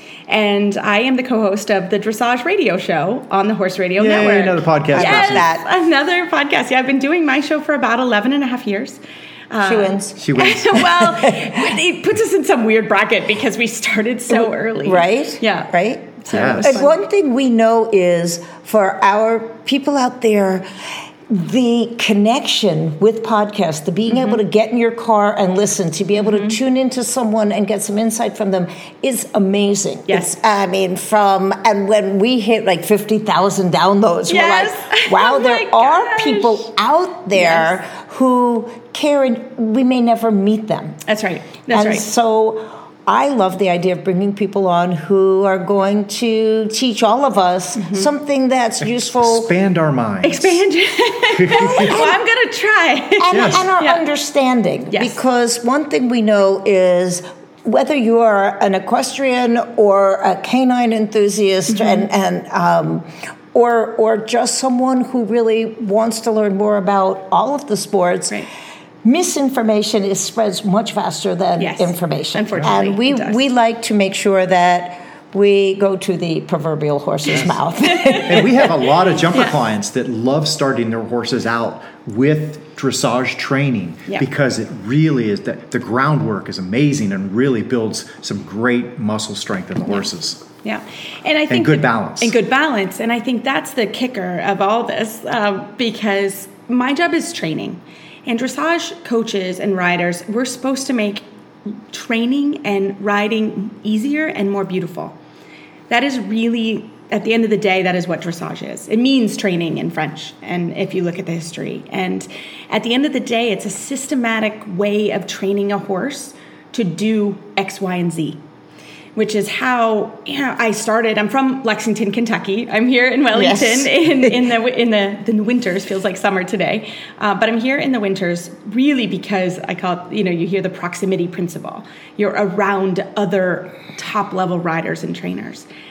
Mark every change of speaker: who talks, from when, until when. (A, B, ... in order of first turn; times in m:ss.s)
0:00.3-0:09.0 A
0:04.0-0:05.5 B
0:04.9-0:05.6 C
0:09.5-0:17.0 A
0:09.6-0:10.2 C
0:10.2-0:11.0 B
0:11.0-0:11.7 C
0:14.3-0:20.6 C
0:16.3-0:16.8 B
0:21.3-0:41.0 C
0:24.1-0:24.4 A
0:26.2-0:26.6 A
0:30.1-0:30.3 A
0:34.3-0:36.7 A
0:37.3-0:37.7 A
0:41.1-0:42.0 A
0:41.7-0:49.5 C
0:47.8-0:48.1 A
0:49.2-0:50.6 B
0:50.2-0:54.0 A
0:51.3-0:52.0 B
0:51.7-0:52.2 C
0:53.2-1:08.4 C
0:53.3-0:53.6 B
0:54.9-0:55.2 A
1:01.7-1:02.0 A
1:09.0-1:18.7 C
1:11.6-1:13.4 A
1:17.8-1:19.6 A
1:18.2-1:30.4 B
1:30.6-1:45.2 A
1:31.5-1:32.3 B
1:45.9-1:58.4 A
1:59.2-2:15.7 A
2:03.3-2:04.3 C